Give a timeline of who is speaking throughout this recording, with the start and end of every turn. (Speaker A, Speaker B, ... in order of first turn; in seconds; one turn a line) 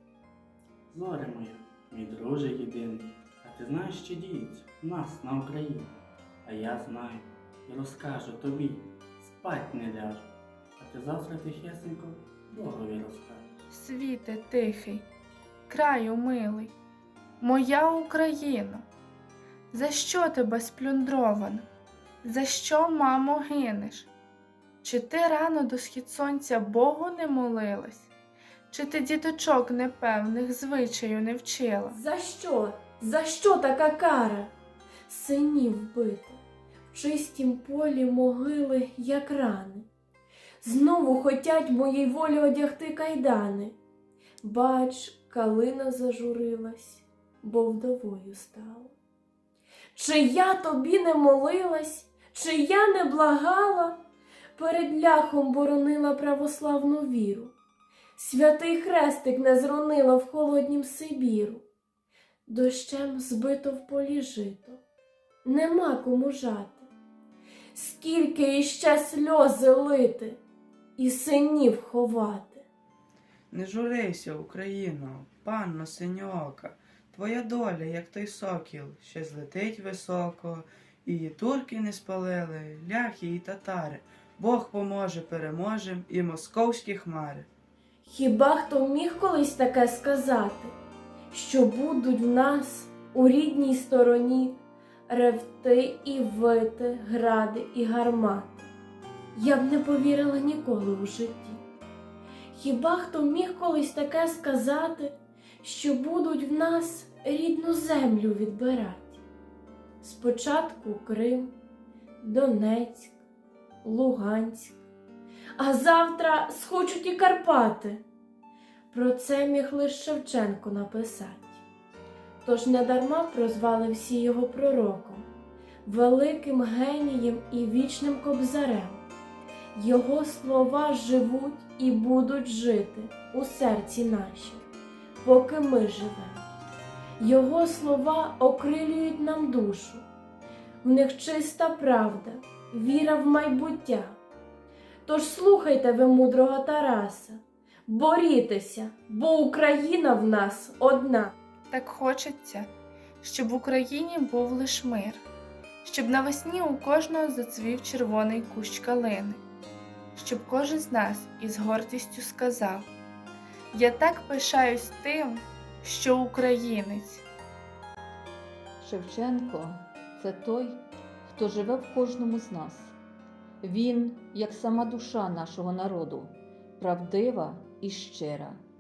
Speaker A: 0.9-13.6
Speaker B: 13.7-15.1
Speaker B: 15.7-16.7
Speaker B: 17.4-18.9
Speaker B: 19.7-21.7
Speaker B: 22.2-24.1
Speaker B: 24.8-28.1
Speaker B: 28.7-32.0
Speaker C: 31.9-34.5
Speaker C: 35.1-36.4
Speaker C: 36.9-39.9
Speaker C: 40.6-43.8
Speaker C: 44.4-49.0
Speaker C: 50.0-54.0
Speaker C: 54.6-57.5
Speaker C: 58.2-61.6
Speaker C: 62.5-64.8
Speaker C: 65.5-66.9
Speaker C: 67.8-70.4
Speaker C: 71.0-72.7
Speaker D: 73.5-87.5
Speaker C: 88.0-90.7
Speaker C: 91.3-98.7
Speaker C: 99.3-101.6
Speaker C: 102.5-109.2
Speaker C: 110.0-111.5
Speaker C: 112.2-113.2
Speaker C: 113.8-114.8
Speaker C: 115.6-118.0
Speaker C: 118.9-121.6
Speaker C: 122.4-125.3
Speaker C: 125.9-129.0
Speaker C: 129.8-134.7
Speaker C: 135.2-136.4
Speaker C: 137.2-140.1
Speaker C: 140.8-144.2
Speaker C: 145.1-151.3
Speaker B: 151.7-152.7
Speaker B: 153.2-155.2
Speaker B: 155.8-159.4
Speaker B: 160.2-162.9
Speaker B: 163.7-167.2
Speaker E: 168.8-172.9
Speaker E: 173.6-178.6